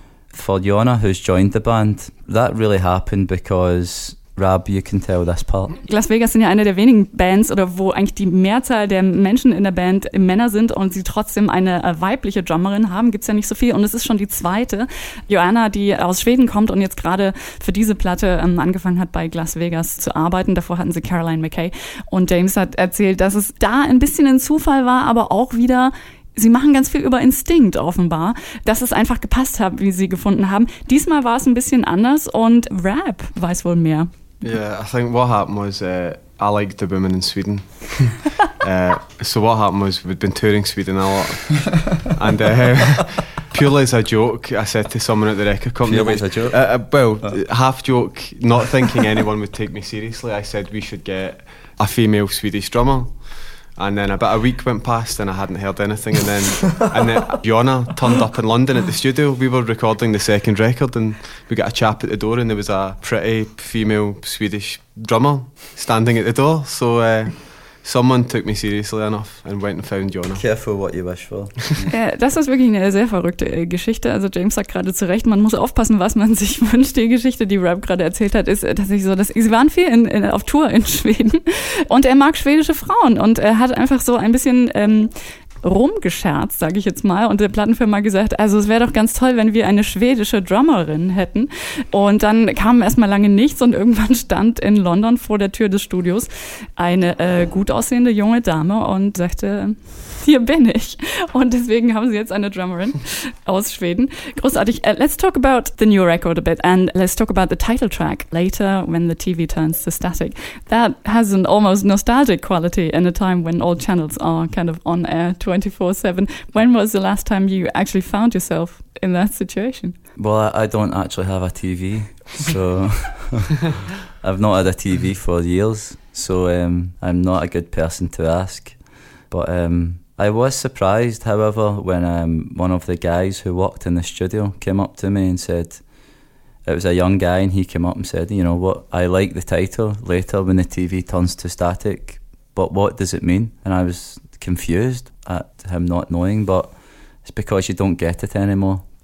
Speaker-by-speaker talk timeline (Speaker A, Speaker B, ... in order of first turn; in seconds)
Speaker A: 0.3-5.8, 45.8-47.3, 70.3-71.9, 120.2-123.6, 124.1-135.8, 136.6-146.7, 147.2-148.8
Speaker B: 5.8-34.1, 71.9-120.0
Speaker C: 34.4-70.4